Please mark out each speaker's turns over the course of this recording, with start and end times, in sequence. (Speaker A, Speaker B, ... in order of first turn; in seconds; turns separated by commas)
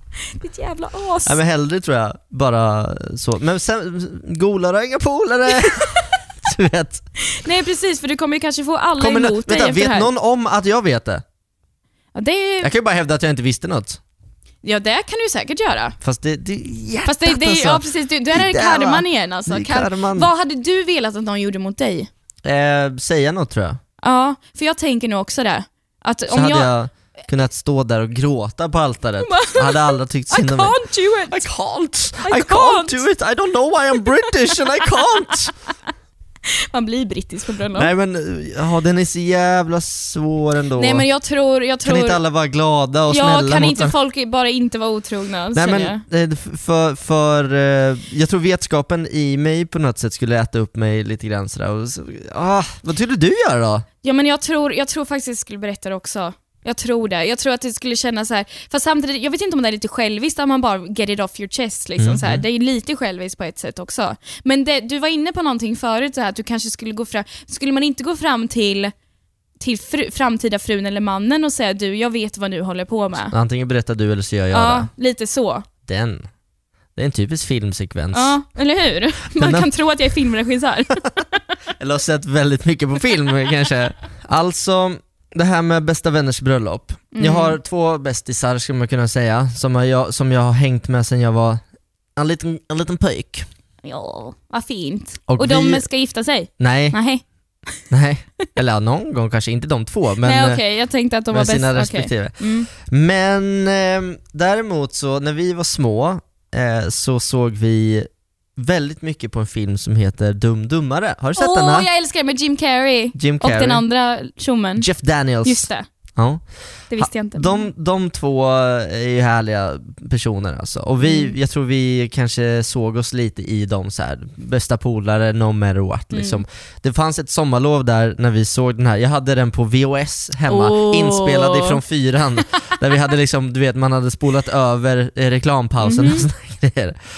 Speaker A: 0.4-1.4, Speaker B: 1.2-7.0, Speaker A: 7.3-10.1, Speaker B: 9.0-11.2, Speaker A: 12.1-12.7, Speaker B: 12.6-14.0, Speaker A: 14.6-15.9, Speaker B: 16.0-20.3, Speaker A: 17.1-22.1, Speaker B: 22.4-23.8, Speaker A: 24.0-26.7, Speaker B: 26.3-30.8, Speaker A: 29.2-31.4, Speaker B: 31.3-35.5, Speaker A: 32.2-33.0, Speaker A: 36.7-37.9, Speaker B: 37.7-41.0, Speaker A: 40.8-42.2, Speaker B: 41.8-43.9, Speaker A: 43.1-46.0, Speaker B: 45.5-53.9, Speaker A: 54.0-68.9, Speaker B: 62.0-62.4, Speaker A: 69.6-73.3, Speaker B: 73.3-74.9, Speaker A: 74.5-75.7, Speaker B: 75.9-76.3, Speaker B: 76.9-78.4, Speaker A: 78.1-81.0, Speaker B: 79.4-79.7, Speaker B: 81.8-91.6, Speaker A: 87.1-87.5, Speaker B: 92.2-93.5, Speaker A: 93.8-97.2, Speaker B: 95.3-95.9, Speaker B: 96.6-97.0, Speaker B: 97.9-100.6, Speaker A: 100.2-102.7, Speaker B: 101.3-111.9, Speaker A: 111.4-114.9, Speaker B: 113.1-113.8, Speaker B: 114.8-116.4, Speaker A: 115.4-115.8, Speaker A: 116.9-117.7, Speaker B: 117.0-137.0, Speaker A: 121.0-121.3, Speaker A: 126.1-126.4, Speaker A: 130.5-131.8, Speaker A: 135.8-136.2